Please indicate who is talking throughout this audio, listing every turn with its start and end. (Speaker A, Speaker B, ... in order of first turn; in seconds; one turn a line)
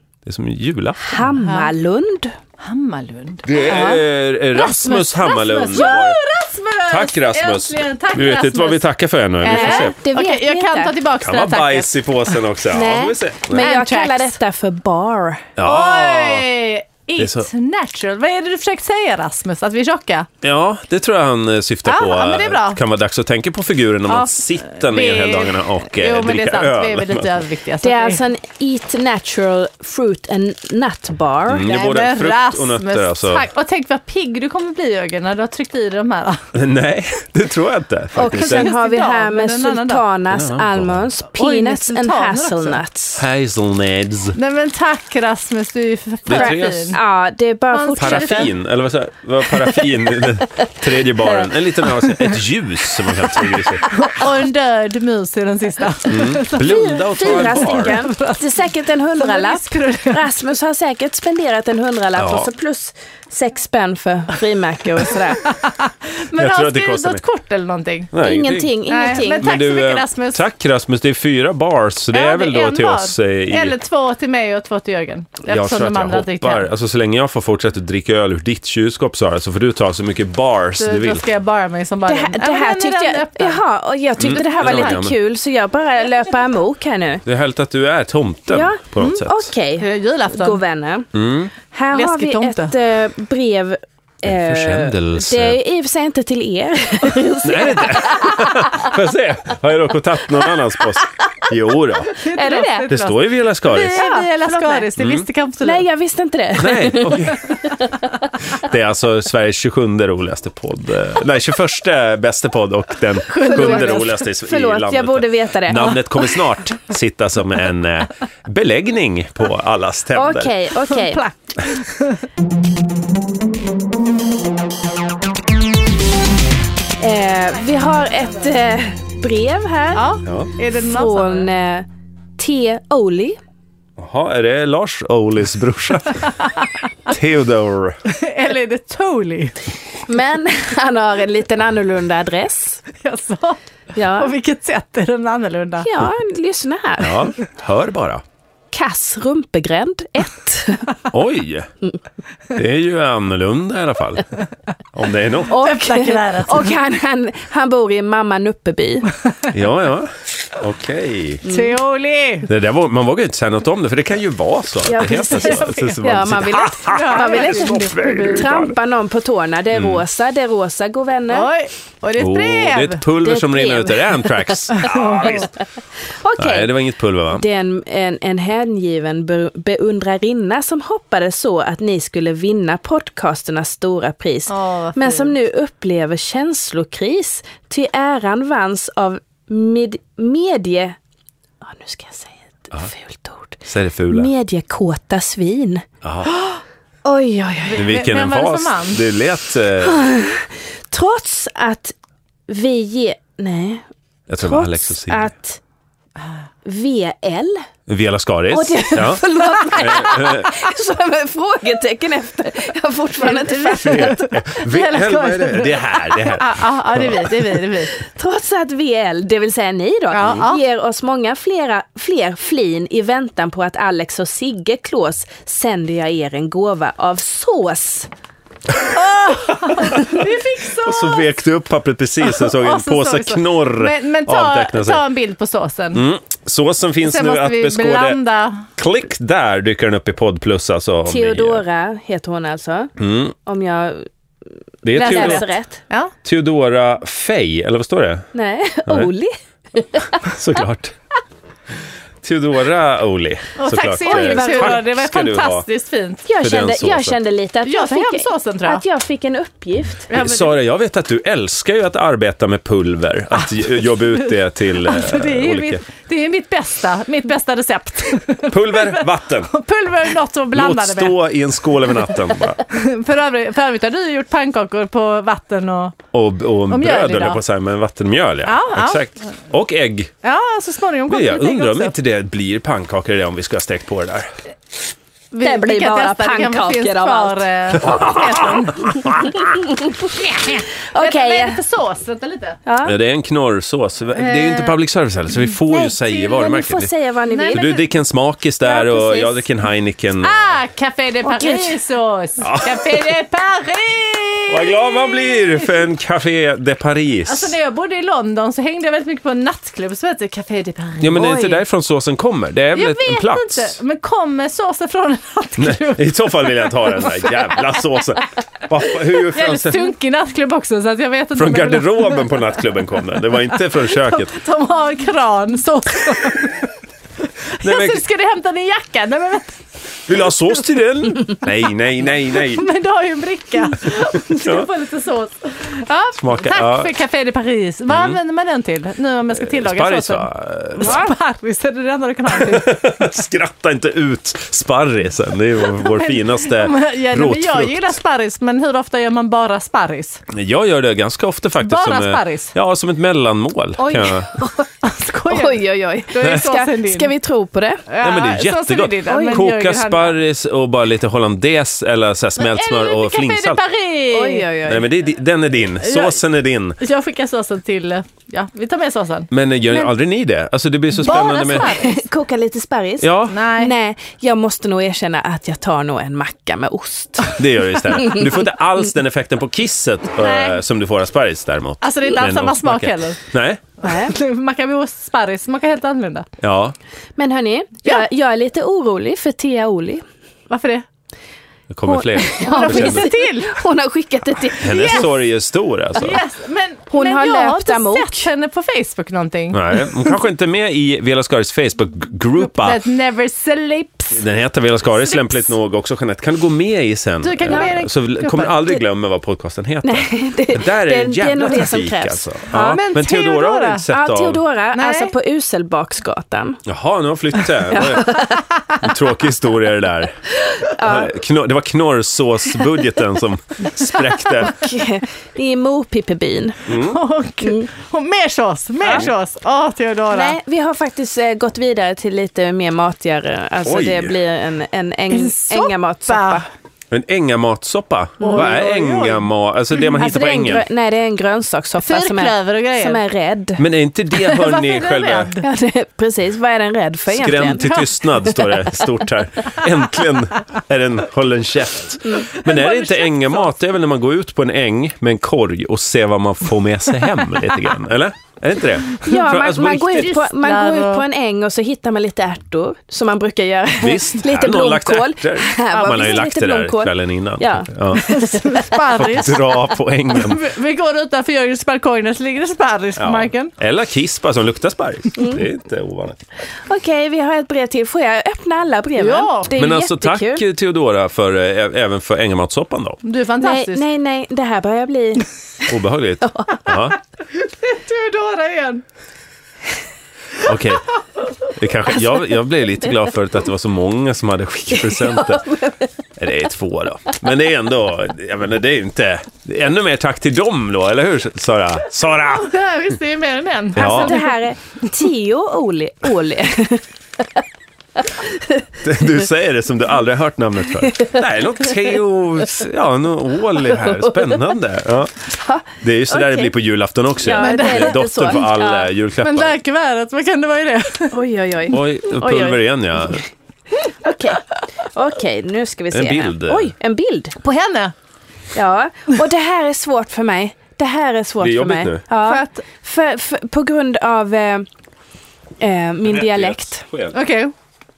Speaker A: 0.2-1.2
Speaker B: 1.0-2.4
Speaker C: 1.4-1.7
Speaker C: 2.6-4.0
Speaker A: 3.5-6.2
Speaker B: 3.6-4.0
Speaker C: 4.5-8.9
Speaker A: 6.9-9.9
Speaker C: 9.4-12.4
Speaker B: 9.5-10.9
Speaker A: 11.2-13.7
Speaker B: 12.7-15.5
Speaker C: 13.5-14.3
Speaker A: 15.6-16.5
Speaker C: 15.6-20.3
Speaker A: 17.2-17.5
Speaker A: 20.4-27.4
Speaker C: 21.9-22.8
Speaker C: 24.7-28.2
Speaker B: 27.8-31.8
Speaker A: 31.5-33.5
Speaker C: 31.7-36.5
Speaker A: 36.5-38.7
Speaker B: 38.2-43.3
Speaker C: 38.2-40.0
Speaker A: 40.3-41.1
Speaker C: 41.4-42.8
Speaker A: 43.2-44.4
Speaker C: 44.4-47.0
Speaker A: 46.3-47.0
Speaker B: 46.3-48.5
Speaker C: 47.7-48.5
Speaker A: 48.0-53.9
Speaker C: 53.9-58.7
Speaker A: 56.1-58.0
Speaker B: 56.6-65.5
Speaker C: 59.2-60.3
Speaker A: 62.2-62.5
Speaker C: 65.5-68.1
Speaker A: 66.4-67.2
Speaker A: 68.1-68.8
Speaker B: 68.2-69.5
Speaker C: 68.9-70.4
Speaker A: 69.4-73.8
Speaker C: 72.1-76.7
Speaker A: 75.5-81.2
Speaker C: 80.8-83.6
Speaker B: 82.1-87.2
Speaker A: 84.2-85.2
Speaker C: 84.2-85.0
Speaker A: 87.2-89.5
Speaker B: 88.5-91.1
Speaker C: 89.8-90.6
Speaker A: 91.1-91.5
Speaker B: 91.7-98.9
Speaker C: 91.9-92.7
Speaker A: 94.2-95.6
Speaker A: 97.4-102.2
Speaker B: 102.1-102.9
Speaker C: 102.2-105.9
Speaker A: 102.9-104.0
Speaker B: 103.7-104.9
Speaker A: 105.0-105.3
Speaker B: 105.6-107.8
Speaker A: 106.6-107.6
Speaker A: 108.5-120.5
Speaker C: 113.3-114.2
Speaker B: 113.4-116.3
Speaker B: 120.1-121.2
Speaker C: 120.9-122.2
Speaker B: 127.0-130.1
Speaker C: 129.9-131.5
Speaker A: 130.2-130.5
Speaker B: 130.8-131.9
Speaker B: 132.4-133.4
Speaker A: 134.0-136.3
Speaker A: 137.1-138.0
Speaker C: 138.1-139.6
Speaker B: 140.1-142.8
Speaker C: 143.0-145.9
Speaker B: 143.9-144.3
Speaker B: 145.8-147.3
Speaker A: 147.0-148.2
Speaker B: 148.7-150.9
Speaker A: 151.1-151.7
Speaker A: 152.5-154.3
Speaker A: 154.9-155.7
Speaker B: 155.5-159.1
Speaker C: 155.5-156.8
Speaker A: 159.5-161.4
Speaker B: 161.4-161.8
Speaker C: 161.4-162.5
Speaker A: 162.5-168.8
Speaker B: 164.9-171.5
Speaker C: 165.2-166.0
Speaker C: 166.9-168.3
Speaker A: 169.7-170.0
Speaker C: 171.3-173.0
Speaker A: 172.2-175.5
Speaker B: 173.2-174.6
Speaker C: 174.7-175.5
Speaker B: 176.2-176.7
Speaker A: 176.4-177.4
Speaker B: 177.3-191.0
Speaker C: 184.5-185.3
Speaker B: 191.6-197.9
Speaker A: 193.7-194.3
Speaker A: 196.0-196.3
Speaker C: 197.7-199.1
Speaker A: 197.8-200.0
Speaker B: 199.8-201.9
Speaker B: 202.5-203.8
Speaker A: 204.3-205.3
Speaker B: 204.4-205.6
Speaker B: 206.7-207.7
Speaker A: 207.9-210.6
Speaker B: 208.5-214.3
Speaker C: 213.2-217.9
Speaker A: 213.7-217.6
Speaker B: 217.9-228.1
Speaker C: 220.1-220.6
Speaker C: 228.9-231.3
Speaker A: 229.8-230.2
Speaker A: 230.8-235.1
Speaker C: 232.3-236.1
Speaker A: 235.9-238.2
Speaker C: 237.0-238.7
Speaker A: 238.8-241.6
Speaker B: 241.1-242.9
Speaker A: 243.0-243.3
Speaker B: 243.4-244.1
Speaker A: 244.8-245.5
Speaker C: 244.9-246.1
Speaker B: 244.9-245.8
Speaker A: 246.2-248.3
Speaker B: 248.3-250.3
Speaker A: 250.2-250.9
Speaker A: 252.2-255.7
Speaker C: 253.6-256.2
Speaker B: 254.1-254.8
Speaker B: 256.2-260.1
Speaker A: 256.4-257.2
Speaker C: 257.6-258.8
Speaker C: 260.1-260.6
Speaker A: 260.1-265.8
Speaker C: 264.8-271.2
Speaker A: 268.5-269.5
Speaker A: 270.5-272.6
Speaker C: 272.7-276.0
Speaker A: 276.1-280.1
Speaker C: 276.7-277.4
Speaker C: 278.4-279.1
Speaker C: 280.2-281.9
Speaker A: 281.1-284.3
Speaker C: 285.3-289.3
Speaker B: 285.4-287.4
Speaker A: 287.8-289.4
Speaker B: 289.4-291.6
Speaker C: 290.1-292.6
Speaker B: 292.7-292.9
Speaker A: 292.8-296.9
Speaker C: 294.2-294.8
Speaker B: 295.7-297.8
Speaker C: 297.3-297.8
Speaker A: 297.5-300.6
Speaker B: 298.6-299.4
Speaker C: 300.2-305.7
Speaker B: 301.2-301.8
Speaker A: 302.4-303.1
Speaker A: 304.5-307.6
Speaker C: 307.3-311.5
Speaker A: 311.0-313.8
Speaker B: 311.2-311.6
Speaker C: 312.7-317.4
Speaker A: 315.6-319.9
Speaker C: 319.1-322.4
Speaker A: 321.4-324.3
Speaker C: 323.7-326.7
Speaker C: 327.4-329.6
Speaker A: 327.6-328.0
Speaker A: 330.1-332.7
Speaker C: 332.4-342.8
Speaker A: 334.3-334.7
Speaker A: 336.1-336.9
Speaker A: 337.9-338.2
Speaker A: 339.4-341.1
Speaker B: 340.8-341.1
Speaker A: 342.3-348.0
Speaker C: 345.7-350.2
Speaker A: 350.3-354.3
Speaker C: 351.6-352.5
Speaker B: 353.8-354.7
Speaker C: 354.8-357.1
Speaker B: 355.3-357.9
Speaker C: 357.9-360.2
Speaker A: 358.0-363.6
Speaker B: 359.1-359.4
Speaker C: 362.4-364.5
Speaker B: 364.1-364.9
Speaker A: 364.7-366.8
Speaker C: 365.8-366.2
Speaker C: 366.8-369.3
Speaker A: 369.3-371.8
Speaker C: 371.0-371.9
Speaker B: 371.1-377.4
Speaker A: 373.0-373.4
Speaker C: 373.3-373.7
Speaker A: 377.4-383.6
Speaker C: 380.2-380.6
Speaker C: 381.8-383.2
Speaker B: 383.8-384.1
Speaker C: 383.8-386.3
Speaker A: 386.4-386.8
Speaker B: 387.2-390.0
Speaker C: 390.5-390.9
Speaker A: 391.7-393.1
Speaker B: 391.9-395.0
Speaker C: 392.4-393.7
Speaker A: 394.6-396.2
Speaker C: 394.6-395.1
Speaker C: 395.9-400.0
Speaker B: 396.9-398.3
Speaker A: 399.5-402.8
Speaker C: 402.4-404.2
Speaker A: 404.1-414.4
Speaker C: 404.9-405.5
Speaker C: 407.2-408.8
Speaker B: 409.8-412.8
Speaker C: 412.5-413.9
Speaker B: 413.9-416.6
Speaker C: 414.7-415.1
Speaker A: 416.7-418.1
Speaker B: 417.7-418.4
Speaker A: 418.8-420.2
Speaker B: 420.3-421.1
Speaker A: 420.8-424.6
Speaker B: 424.2-426.6
Speaker A: 426.7-427.0
Speaker C: 426.8-430.4
Speaker B: 427.4-427.7
Speaker B: 430.1-436.5
Speaker A: 433.6-434.2
Speaker C: 435.1-436.4
Speaker A: 436.9-440.6
Speaker B: 438.2-438.5
Speaker C: 438.2-439.9
Speaker B: 440.0-443.6
Speaker C: 441.8-443.0
Speaker A: 443.6-445.4
Speaker C: 444.2-445.4
Speaker B: 445.4-447.7
Speaker A: 447.1-460.1
Speaker C: 447.6-447.9
Speaker C: 452.2-453.5
Speaker B: 459.1-468.8
Speaker C: 459.9-461.1
Speaker A: 463.8-468.1
Speaker C: 468.0-473.5
Speaker A: 468.9-470.4
Speaker A: 473.0-476.2
Speaker B: 475.2-475.4
Speaker B: 476.7-480.4
Speaker C: 479.0-479.5
Speaker A: 479.6-483.0
Speaker C: 483.0-483.9
Speaker B: 483.4-485.7
Speaker A: 485.7-487.0
Speaker B: 486.2-486.6
Speaker C: 487.4-488.8
Speaker A: 490.4-490.8
Speaker A: 491.5-495.5
Speaker B: 494.8-495.9
Speaker A: 496.2-502.6
Speaker C: 502.2-504.3
Speaker A: 503.8-504.2
Speaker B: 503.8-506.8
Speaker B: 508.0-508.7
Speaker A: 508.8-515.1
Speaker B: 510.9-511.2
Speaker B: 513.8-514.5
Speaker B: 515.3-516.5
Speaker A: 515.8-519.6
Speaker B: 517.2-518.9
Speaker C: 517.3-518.2
Speaker C: 519.2-521.2
Speaker B: 521.1-523.2
Speaker A: 521.7-523.2
Speaker B: 523.8-527.4
Speaker A: 525.9-526.7
Speaker C: 527.4-527.9
Speaker B: 528.5-534.7
Speaker A: 531.4-532.1
Speaker B: 535.6-536.9
Speaker A: 536.0-537.2
Speaker C: 537.1-537.5